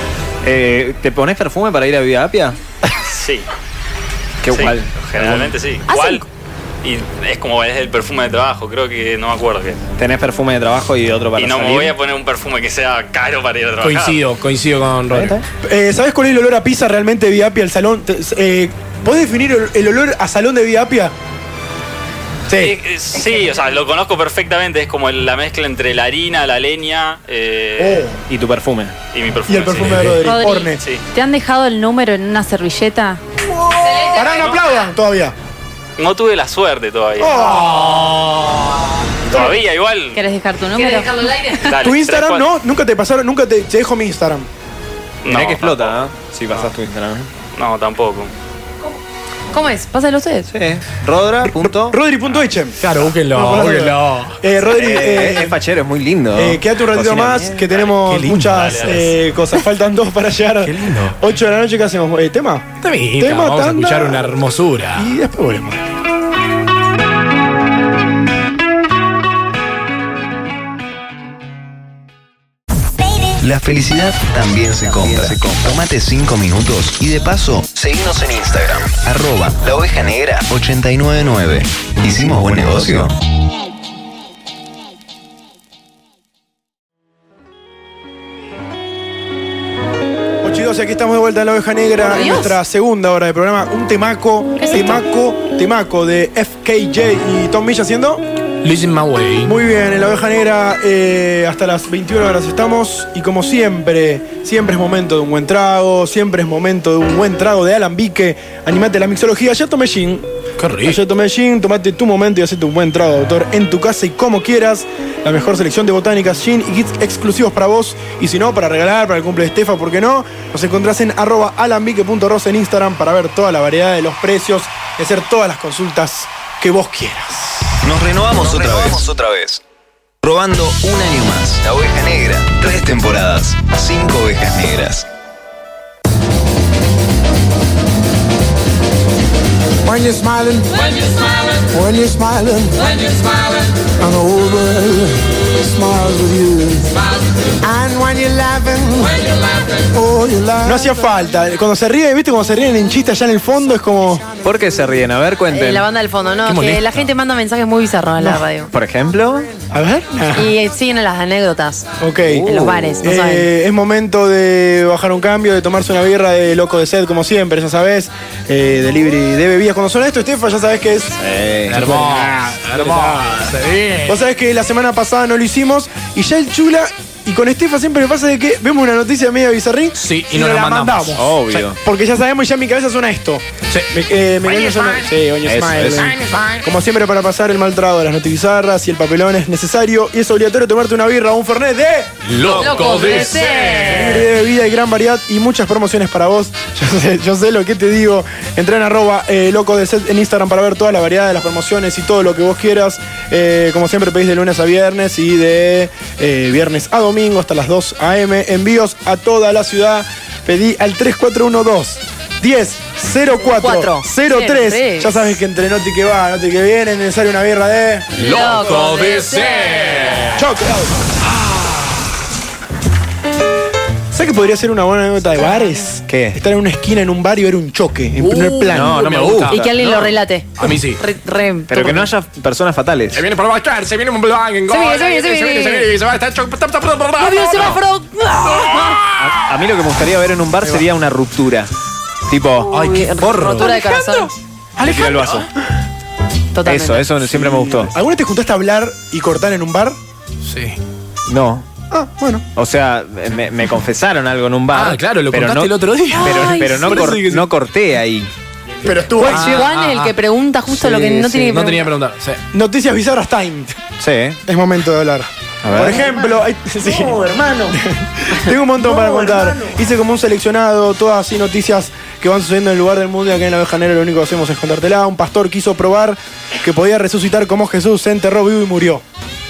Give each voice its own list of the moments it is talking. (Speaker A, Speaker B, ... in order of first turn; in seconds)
Speaker A: 0.4-2.6, 4.4-5.5, 10.0-11.9, 28.3-29.0, 45.3-47.3, 50.5-52.0, 54.7-57.7, 82.5-83.0, 154.4-155.9, 158.7-159.5, 162.3-163.0, 171.2-172.0, 181.2-181.8, 185.4-186.2, 192.5-192.8, 226.1-226.4, 228.7-229.7, 231.7-233.2, 239.2-241.7, 242.3-242.7, 244.8-245.5, 246.6-247.9, 251.3-251.7, 252.6-258.3, 264.0-264.4, 265.6-266.1
Speaker B: 3.0-3.5, 4.5-6.2, 6.8-9.8, 11.4-14.2, 22.6-28.1, 29.1-30.1, 30.7-31.0, 36.0-37.5, 39.3-40.2, 41.7-42.5, 45.2-46.1, 47.5-48.3, 57.7-58.0, 58.5-59.0
Speaker C: 5.9-6.2, 33.8-34.9, 40.8-41.8, 49.5-50.5, 92.0-92.5, 94.6-95.0, 155.5-158.7, 160.3-161.9, 162.5-163.5, 192.6-194.3, 213.4-215.3, 218.1-220.3, 229.5-232.1, 234.7-235.9, 237.2-239.0, 242.7-244.3, 246.5-247.1, 256.1-257.1, 259.2-261.9
Speaker D: 13.8-15.4, 29.8-30.2, 37.4-38.6, 52.8-54.4, 58.0-59.1, 60.6-61.2, 62.8-65.1, 98.6-99.5, 110.6-111.0, 156.5-157.1, 171.7-174.2, 180.0-181.2, 192.2-194.2, 218.2-220.4, 221.3-221.9, 228.2-231.0, 233.1-237.8, 238.4-239.3, 242.7-244.3, 244.8-245.5, 250.4-250.8, 254.7-257.4, 259.2-260.1, 261.2-262.4
Speaker E: 15.6-21.1, 22.5-22.8, 27.8-28.2, 29.5-30.8, 33.5-35.4, 37.2-38.1, 41.8-44.5, 51.5-55.6, 56.3-64.3, 64.9-65.9, 90.4-98.2, 99.4-110.3, 110.8-127.8, 150.6-154.2, 159.7-160.5, 162.0-162.5, 163.0-171.2, 171.7-173.4, 174.1-192.2, 193.8-218.1, 220.3-221.1, 224.1-229.1, 247.2-250.0, 251.9-252.4, 258.8-259.7, 260.7-261.5, 262.5-263.8, 264.5-279.0
Speaker F: 30.2-33.2, 40.1-41.1
Speaker G: 73.4-83.2, 127.8-129.6, 130.2-135.1
Speaker H: 139.8-146.9, 147.6-149.3, 149.9-150.9, 267.1-267.7